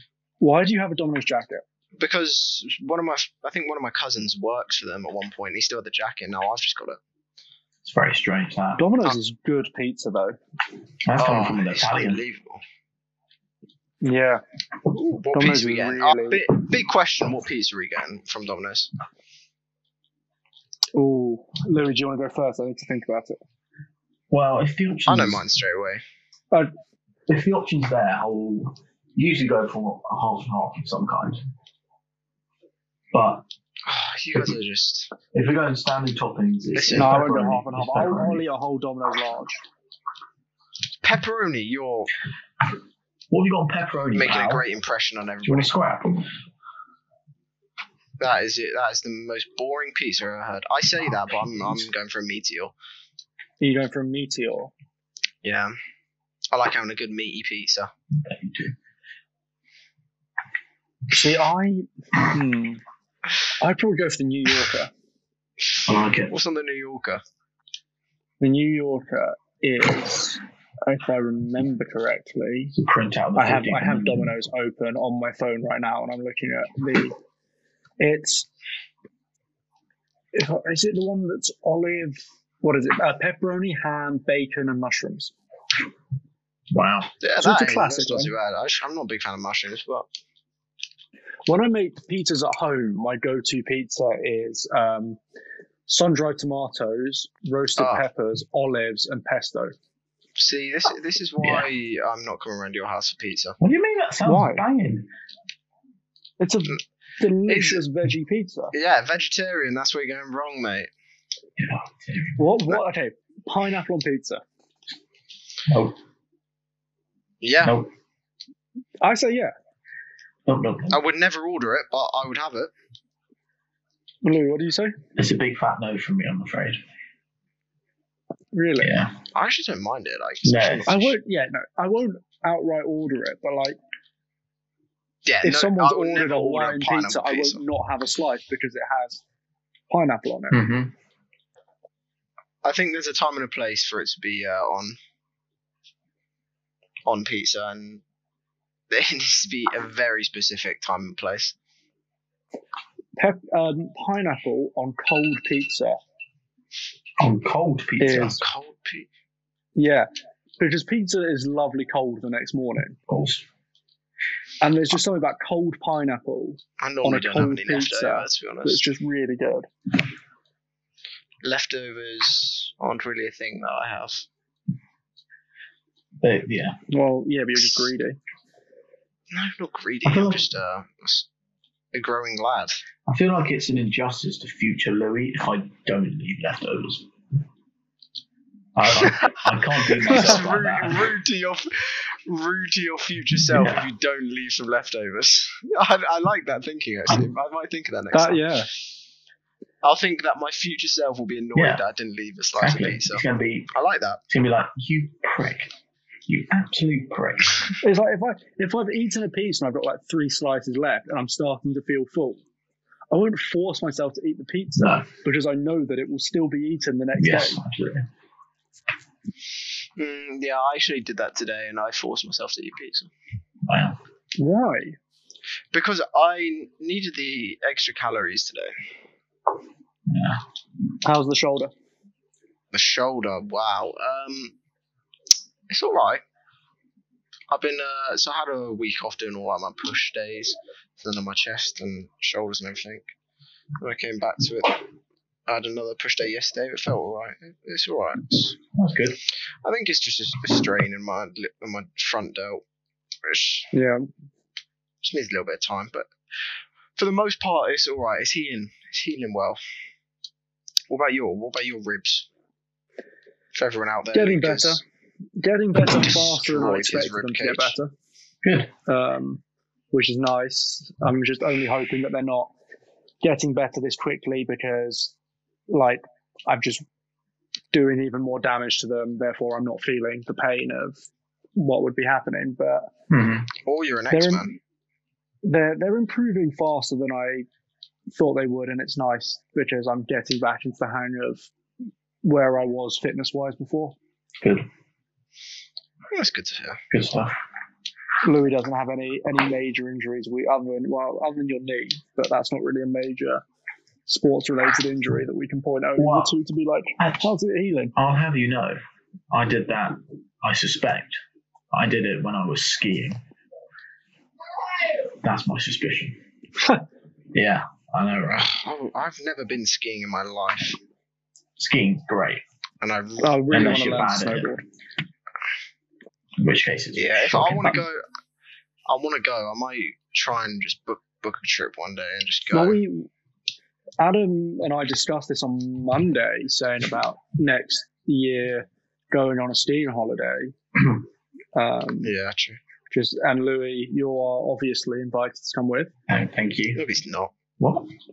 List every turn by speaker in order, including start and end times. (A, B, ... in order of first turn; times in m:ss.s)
0:00.4-0:01.6 A
0:02.0-0:07.0 B
0:07.8-0:08.8 C
0:08.8-0:10.4 A
0:11.1-0:12.2 C
0:11.2-0:12.6 B
0:14.0-0:14.4 A
0:14.9-0:16.4 A
0:15.1-0:18.9 B
0:20.9-0:23.4 A
0:24.3-0:25.4 C
0:25.1-0:26.0 B
0:27.3-0:31.4 C
0:33.1-0:33.4 C
0:33.9-0:35.1 B
0:35.3-0:38.4 C
0:36.7-0:37.3 B
0:36.9-0:39.6 A
0:41.0-0:42.1 B
0:43.3-0:44.6 C
0:44.1-0:45.8 B
0:45.4-0:46.3 C
0:48.2-0:52.7 B
0:53.6-0:54.7 A
0:55.4-0:55.7 B
0:56.5-0:57.9 B
0:58.1-0:58.8 C
1:01.1-1:02.8 A
1:03.6-1:04.9 A
1:05.9-1:06.3 C
1:06.3-1:07.2 B
1:08.4-1:12.8 A
1:12.7-1:14.3 C
1:13.4-1:17.2 A
1:18.0-1:18.5 A
1:20.3-1:25.3 A
1:26.7-1:27.1 C
1:27.2-1:30.1 B
1:27.4-1:28.3 A
1:31.5-1:35.2 A
1:35.9-1:39.7 A
1:37.8-1:38.0 B
1:40.4-1:43.6 B
1:41.4-1:41.7 C
1:43.6-1:45.1 C
1:44.2-1:44.6 A
1:46.4-1:48.7 A
1:47.5-1:47.8 B
1:48.7-1:50.9 B
1:51.6-1:52.4 C
1:52.4-1:54.4 A
1:55.7-1:56.0 C
1:57.4-1:57.8 B
1:57.6-1:57.9 C
1:59.0-1:59.5 A
2:00.4-2:01.0 C
2:00.9-2:02.7 B
2:04.2-2:05.0 A
2:05.2-2:06.8 C
2:08.5-2:08.9 A
2:08.8-2:09.2 C
2:09.3-2:11.1 B
2:10.4-2:10.9 C
2:10.9-2:13.8 A
2:15.2-2:17.6 B
2:15.4-2:19.2 A
2:19.9-2:20.6 A
2:20.5-2:20.9 C
2:22.6-2:25.0 B
2:27.1-2:28.0 B
2:28.9-2:31.6 B
2:33.2-2:36.0 A
2:37.2-2:38.4 C
2:38.0-2:38.4 A
2:38.2-2:39.1 B
2:39.8-2:43.0 A
2:43.1-2:43.4 C
2:44.6-2:49.7 A
2:46.8-2:48.8 B
2:51.4-2:54.2 B
2:56.2-2:56.8 C
2:56.9-2:58.2 A
2:59.3-3:01.3 B
3:00.0-3:00.4 C
3:01.9-3:02.8 B
3:03.1-3:07.1 C
3:08.7-3:11.1 C
3:09.0-3:18.5 B
3:13.5-3:13.9 C
3:18.1-3:18.7 A
3:19.8-3:24.2 B
3:21.6-3:21.8 C
3:22.6-3:23.7 C
3:24.3-3:25.7 C
3:26.3-3:27.5 C
3:27.8-3:32.4 A
3:33.1-3:37.6 A
3:34.8-3:35.1 C
3:37.2-3:38.1 C
3:40.0-3:43.1 B
3:43.7-3:44.0 C
3:44.4-3:45.0 A
3:45.7-3:48.7 B
3:50.1-3:50.4 C
3:51.0-3:51.7 A
3:52.7-3:54.5 B
3:55.7-3:56.2 B
3:57.5-4:03.0 B
4:03.8-4:04.8 B
4:05.5-4:08.6 B
4:08.7-4:09.2 C
4:09.6-4:12.6 B
4:13.2-4:13.7 B
4:13.7-4:14.1 A
4:15.0-4:16.1 B
4:17.0-4:19.6 B
4:20.9-4:22.3 B
4:23.5-4:24.8 B
4:24.1-4:24.8 A
4:25.4-4:27.9 A
4:26.0-4:27.7 B
4:28.4-4:28.7 C
4:28.9-4:32.5 A
4:33.2-4:35.1 A
4:35.7-4:36.8 A
4:37.7-4:42.9 A
4:43.1-4:43.5 C
4:43.6-4:44.5 B
4:44.1-4:44.5 A
4:45.4-4:47.5 A
4:48.1-4:51.5 A
4:52.2-4:54.0 A
4:54.4-4:54.7 C
4:56.1-4:56.8 B
4:56.9-4:57.4 C
4:58.2-5:03.4 A
5:04.1-5:08.0 A
5:06.0-5:06.4 C
5:07.0-5:07.3 C
5:08.0-5:08.8 C
5:09.3-5:11.2 C
5:11.7-5:13.2 C
5:15.2-5:16.2 C
5:17.3-5:18.5 C
5:18.3-5:20.8 B
5:21.6-5:22.4 C
5:22.8-5:23.4 B
5:23.2-5:24.6 A
5:23.5-5:24.5 C
5:26.4-5:27.8 C
5:27.0-5:28.0 B
5:28.9-5:32.8 B
5:32.5-5:33.1 A
5:34.0-5:40.6 A
5:41.6-5:42.1 A
5:42.0-5:42.6 B
5:42.9-5:45.9 A
5:46.1-5:46.8 C
5:46.7-5:47.3 B
5:47.6-5:47.9 C